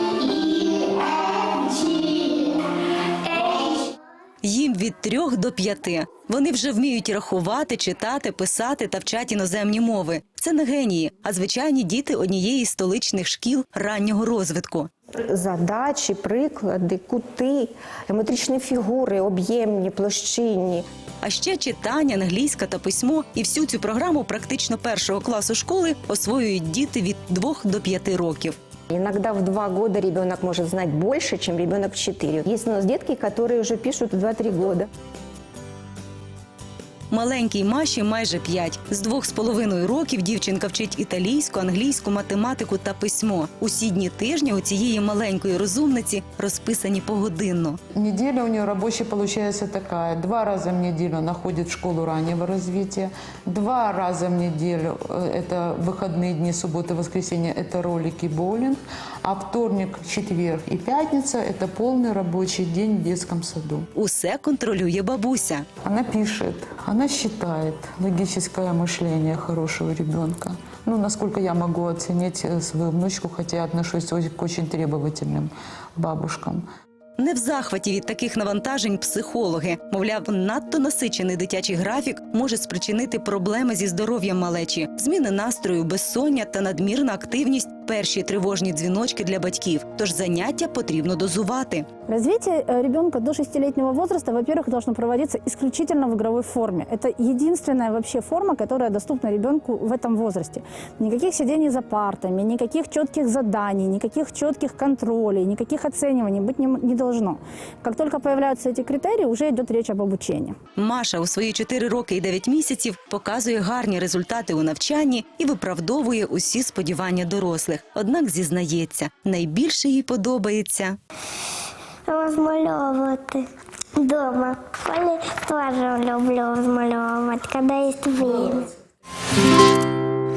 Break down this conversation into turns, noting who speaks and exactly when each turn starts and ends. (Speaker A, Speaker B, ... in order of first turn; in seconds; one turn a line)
Speaker A: 0.2-2.4
Speaker B: 4.4-14.9
Speaker C: 15.2-20.8
Speaker B: 21.2-28.5
Speaker C: 28.9-34.9
Speaker B: 37.1-47.8
Speaker D: 48.0-63.9
Speaker B: 63.9-65.7
Speaker D: 65.8-76.6
Speaker B: 77.2-91.8
Speaker E: 92.1-110.6
Speaker B: 110.8-121.0
Speaker A: 122.1-123.4
Speaker A: 124.0-128.7